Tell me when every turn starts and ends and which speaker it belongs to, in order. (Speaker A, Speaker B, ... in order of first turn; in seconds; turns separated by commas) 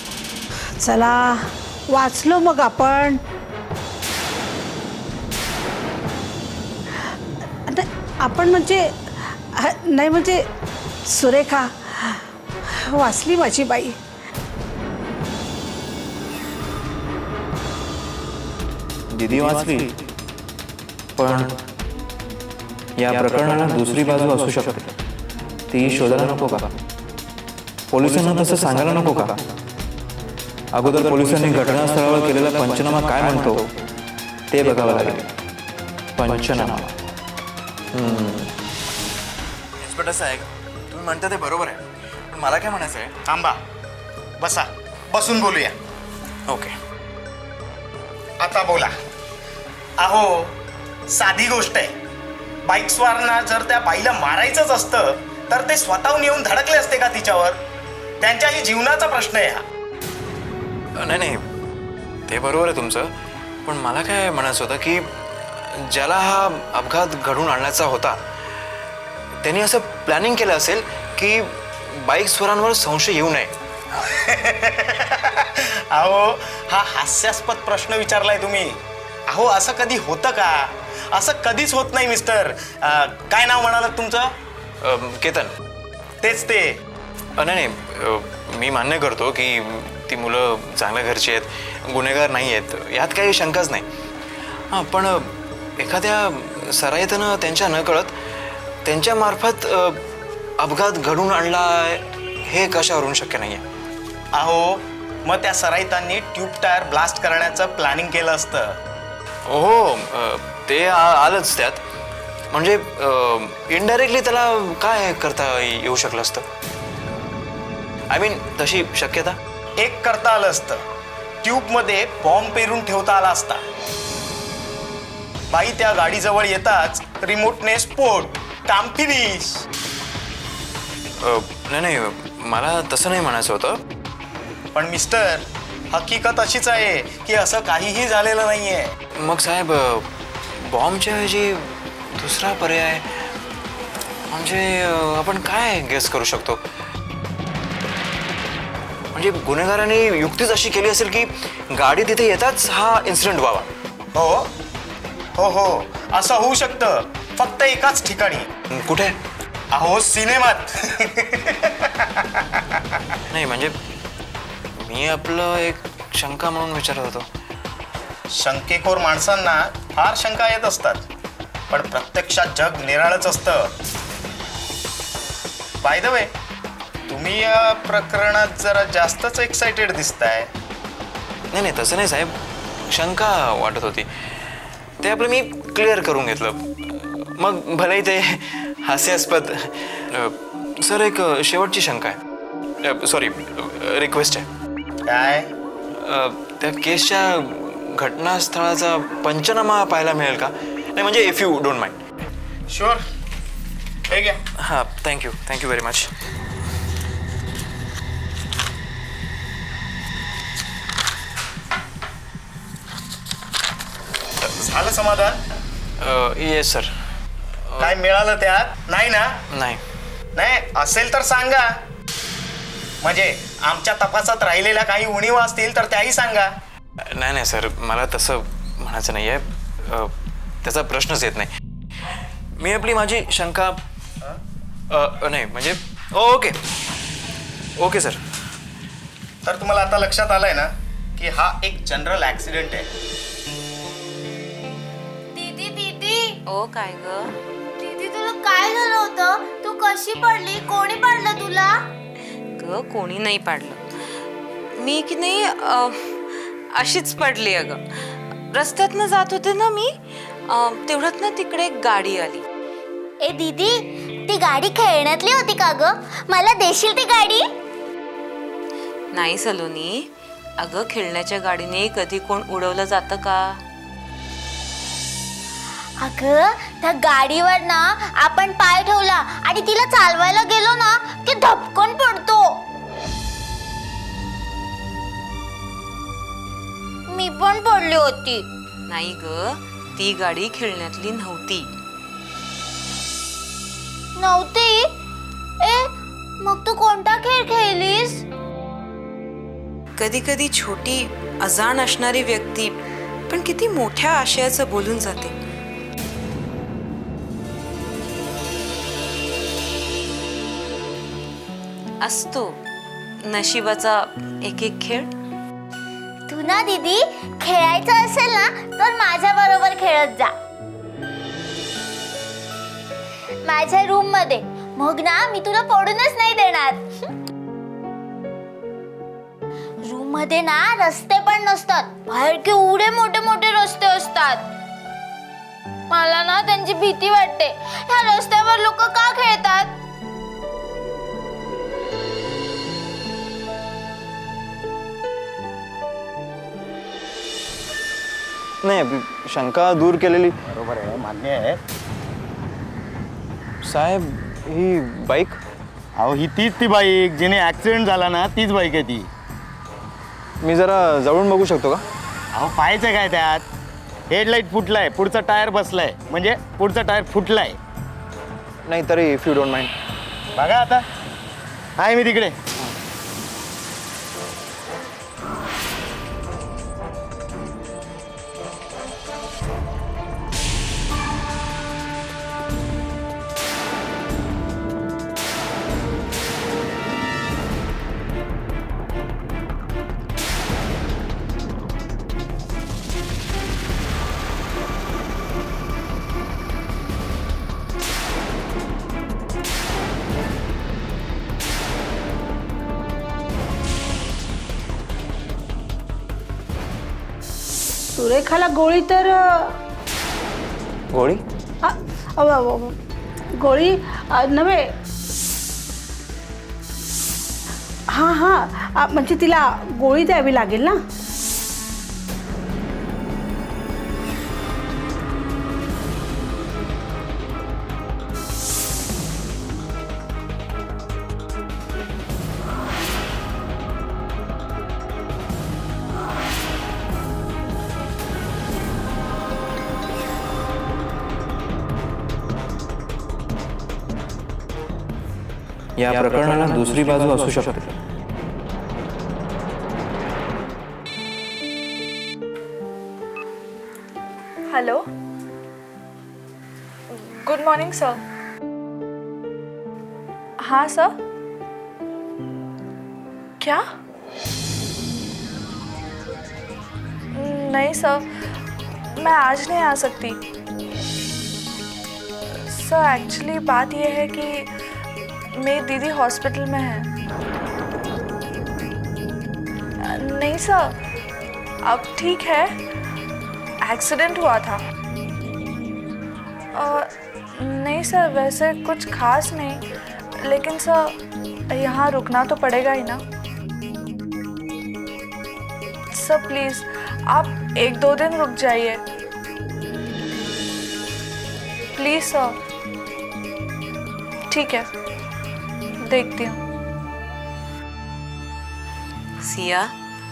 Speaker A: 0.8-3.2, Speaker A: 7.7-10.5, Speaker A: 11.0-14.0, Speaker B: 19.1-19.9, Speaker B: 21.1-21.6, Speaker B: 23.0-24.9, Speaker B: 25.7-26.7, Speaker B: 27.9-29.4, Speaker B: 30.7-33.7, Speaker B: 34.5-35.3, Speaker B: 36.1-36.9, Speaker B: 37.9-38.5, Speaker B: 39.8-43.1, Speaker C: 43.3-43.6, Speaker C: 44.4-45.7, Speaker B: 46.5-46.8, Speaker C: 48.4-48.9, Speaker C: 50.0-50.5, Speaker C: 51.1-51.9, Speaker C: 52.6-57.6, Speaker C: 58.2-59.6, Speaker B: 60.9-61.5, Speaker B: 62.3-63.1, Speaker B: 63.6-68.2, Speaker B: 69.4-73.5, Speaker C: 74.0-84.3, Speaker B: 84.8-85.5, Speaker C: 86.2-86.8, Speaker B: 87.4-93.8, Speaker B: 94.7-98.1, Speaker B: 98.8-100.0, Speaker B: 100.6-103.6, Speaker C: 104.3-108.8, Speaker B: 109.5-111.8, Speaker B: 112.5-116.5, Speaker B: 118.1-119.4, Speaker C: 119.8-120.8, Speaker C: 121.4-123.6, Speaker C: 125.5-129.6, Speaker B: 131.2-133.8, Speaker C: 134.7-138.9, Speaker B: 139.1-143.3, Speaker B: 144.3-146.6, Speaker B: 149.1-153.7, Speaker C: 154.1-154.5, Speaker C: 155.3-158.5, Speaker B: 158.7-159.2, Speaker C: 159.7-162.8, Speaker B: 163.3-163.8, Speaker B: 164.8-167.3, Speaker C: 168.3-171.0, Speaker C: 171.7-173.7, Speaker C: 175.8-176.3, Speaker C: 177.1-180.5, Speaker B: 181.5-184.1, Speaker B: 185.0-192.2, Speaker B: 192.8-194.5, Speaker C: 195.1-195.5, Speaker B: 195.9-202.0, Speaker C: 202.7-203.0, Speaker C: 204.1-204.4, Speaker B: 204.6-206.1, Speaker C: 214.5-215.4, Speaker B: 216.0-216.9, Speaker C: 217.8-219.4, Speaker B: 219.5-219.8, Speaker C: 220.3-221.8, Speaker C: 223.0-226.5, Speaker B: 227.0-231.5, Speaker B: 232.6-233.8, Speaker B: 234.9-236.6, Speaker B: 237.8-238.2, Speaker C: 239.4-242.9, Speaker D: 245.3-246.3, Speaker E: 246.4-247.3, Speaker D: 247.8-251.7, Speaker E: 252.6-253.8, Speaker E: 254.7-257.8, Speaker E: 258.5-259.9, Speaker E: 260.5-262.4, Speaker D: 263.2-263.7, Speaker D: 264.3-267.4, Speaker E: 269.1-270.1, Speaker E: 270.6-273.6, Speaker D: 276.0-282.6, Speaker D: 287.1-288.4, Speaker E: 288.9-291.7, Speaker D: 294.2-294.9, Speaker D: 295.6-295.9, Speaker D: 296.4-298.2, Speaker E: 300.0-302.8, Speaker E: 303.3-305.3, Speaker E: 312.0-312.6, Speaker E: 313.2-315.1, Speaker D: 316.3-320.3, Speaker D: 323.4-326.9, Speaker D: 329.9-334.4, Speaker D: 335.9-339.7, Speaker B: 348.6-350.4, Speaker C: 350.5-351.6, Speaker B: 353.6-355.4, Speaker C: 356.0-359.1, Speaker B: 360.4-361.8, Speaker C: 362.3-363.4, Speaker C: 364.1-367.6, Speaker B: 368.6-369.7, Speaker C: 370.4-370.9, Speaker C: 371.8-372.4, Speaker A: 407.9-409.6, Speaker B: 410.9-411.2, Speaker A: 411.6-412.8, Speaker A: 413.4-414.7, Speaker A: 417.9-420.8, Speaker B: 445.8-447.7, Speaker F: 454.5-454.8, Speaker F: 456.9-458.0, Speaker F: 460.4-460.9, Speaker F: 467.1-468.3, Speaker F: 468.9-470.2, Speaker F: 472.3-474.5, Speaker F: 475.4-476.9, Speaker F: 479.8-480.8, Speaker F: 481.6-482.6, Speaker F: 483.6-484.6, Speaker F: 486.5-489.6, Speaker F: 490.2-491.0, Speaker F: 491.5-493.0, Speaker F: 495.9-498.8, Speaker F: 501.7-502.4, Speaker F: 504.3-504.7, Speaker F: 505.8-506.4, Speaker E: 509.2-509.7